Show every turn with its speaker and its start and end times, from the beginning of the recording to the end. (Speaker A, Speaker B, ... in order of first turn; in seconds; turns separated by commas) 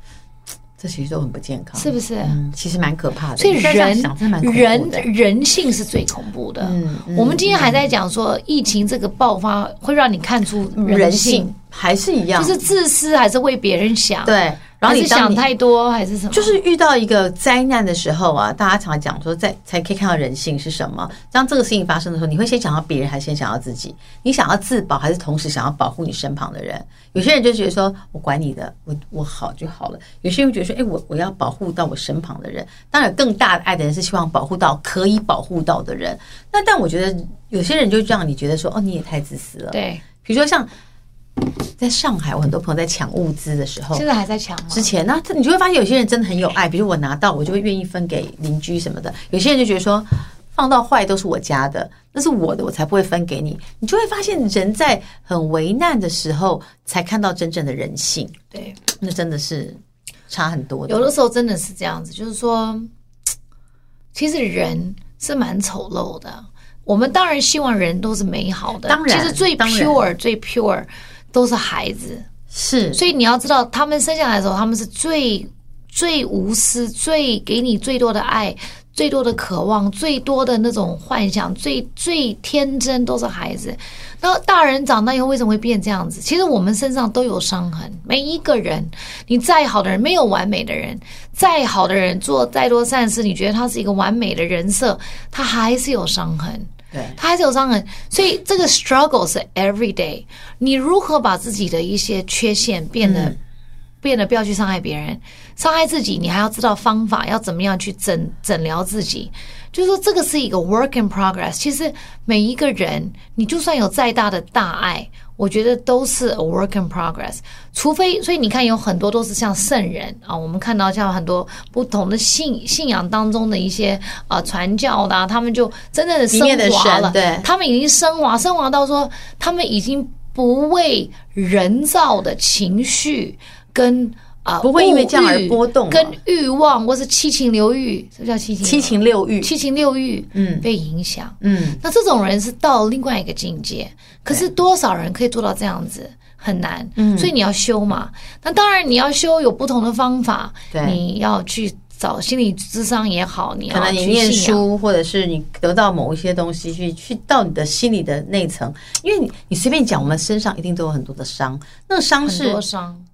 Speaker A: 0.8-5.1, Speaker B: 1.8-2.4, Speaker B: 3.4-11.5, Speaker A: 6.6-7.9, Speaker A: 10.8-12.6, Speaker B: 12.4-16.6, Speaker A: 14.2-15.5, Speaker A: 16.3-40.7, Speaker B: 39.7-40.0, Speaker A: 41.4-44.0, Speaker B: 43.9-44.9, Speaker A: 44.7-61.1, Speaker B: 60.9-62.9, Speaker B: 64.1-72.3, Speaker A: 68.9-70.0, Speaker A: 72.5-73.0, Speaker B: 72.9-103.3, Speaker A: 96.9-97.2, Speaker A: 103.0-103.4, Speaker B: 104.0-154.6, Speaker A: 126.3-127.5, Speaker A: 134.6-136.2, Speaker A: 138.6-139.5, Speaker A: 140.3-140.7, Speaker A: 141.4-141.8, Speaker A: 147.0-147.3, Speaker A: 150.7-151.0, Speaker A: 153.7-162.6, Speaker B: 162.2-163.1